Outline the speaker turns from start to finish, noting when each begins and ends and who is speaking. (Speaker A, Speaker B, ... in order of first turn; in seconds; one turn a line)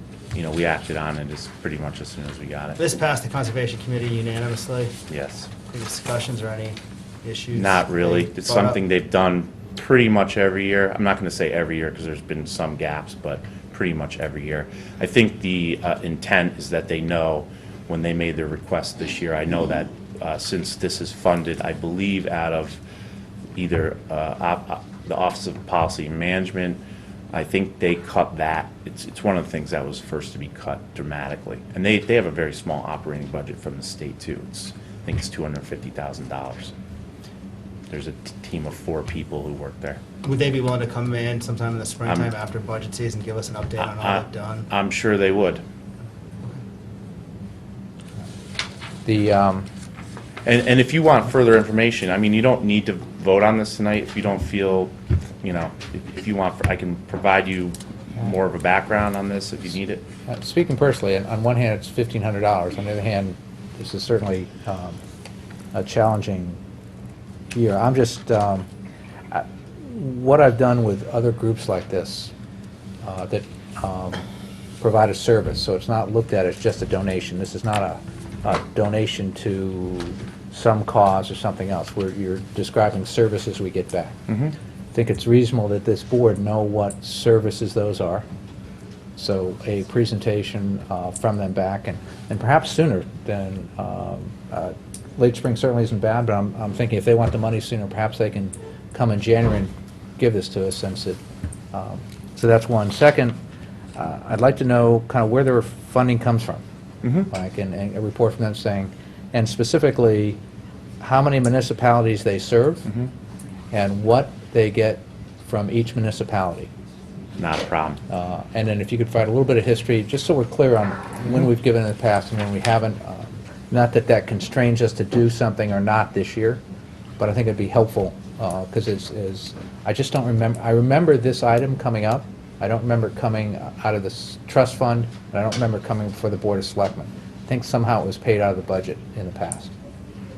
Speaker A: 0.3-2.8
Speaker B: 2.8-5.0
Speaker A: 5.1-5.5
Speaker B: 5.7-8.8
Speaker A: 7.5-22.8
Speaker A: 23.6-26.8
Speaker A: 27.3-36.7
Speaker A: 37.9-40.0
Speaker B: 40.2-44.7
Speaker A: 42.1-42.3
Speaker A: 43.8-45.6
Speaker C: 49.0-49.7
Speaker A: 50.5-60.0
Speaker C: 60.3-65.0
Speaker C: 65.7-66.6
Speaker C: 67.5-68.7
Speaker C: 69.3-72.3
Speaker C: 73.0-74.2
Speaker C: 74.8-84.2
Speaker A: 84.3-84.5
Speaker C: 84.9-88.2
Speaker C: 89.2-101.2
Speaker C: 101.7-103.4
Speaker C: 104.0-106.6
Speaker A: 107.0-107.3
Speaker C: 107.3-110.4
Speaker C: 111.0-112.9
Speaker C: 113.7-116.7
Speaker A: 117.4-118.0
Speaker C: 118.1-126.6
Speaker C: 127.2-139.7